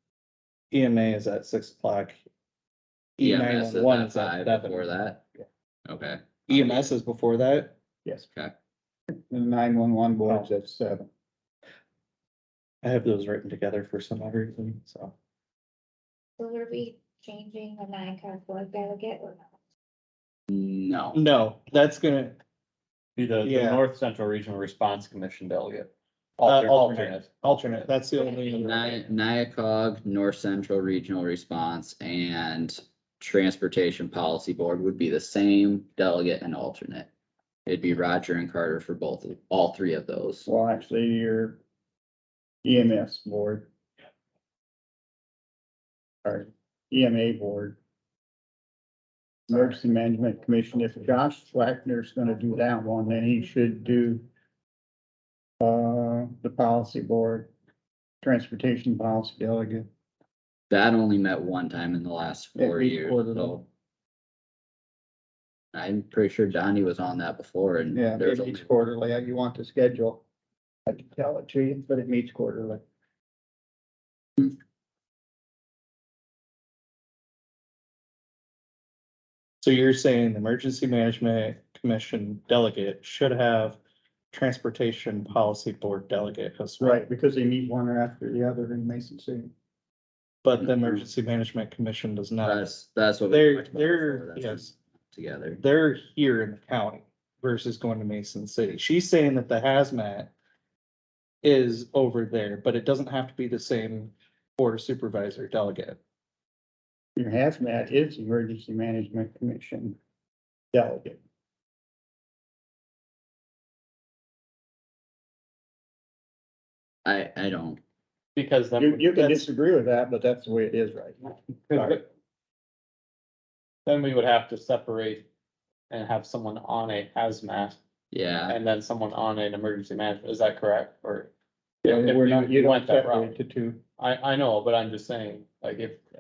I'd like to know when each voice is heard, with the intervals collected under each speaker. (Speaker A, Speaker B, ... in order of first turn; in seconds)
Speaker A: 0.7-2.2, 3.2-4.8, 6.5-7.8, 12.8-15.1, 21.1-22.4, 23.4-23.8, 26.4-28.9, 79.6-83.8, 84.3-87.0, 90.4-92.7, 93.3-94.7, 95.6-100.3, 101.4-106.0
Speaker B: 3.2-5.2, 5.9-6.8, 20.5-21.2, 28.6-37.1, 37.7-40.5, 60.7-63.7, 65.7-68.7, 90.6-91.0, 92.4-95.6, 117.0-117.8, 128.1-128.6
Speaker C: 9.3-11.1, 40.5-41.6, 42.6-43.7, 46.2-47.8, 49.5-54.3, 55.6-57.5, 58.2-59.9, 62.6-63.6, 67.9-70.2, 70.9-72.8, 86.8-89.5, 107.2-110.0, 110.7-111.2, 118.8-122.0, 131.8-133.8
Speaker D: 16.4-19.5, 28.1-29.0
Speaker E: 23.2-27.8, 118.4-119.5, 121.7-122.0, 123.9-125.3, 125.9-127.8, 128.5-131.3, 131.9-133.4, 134.0-136.0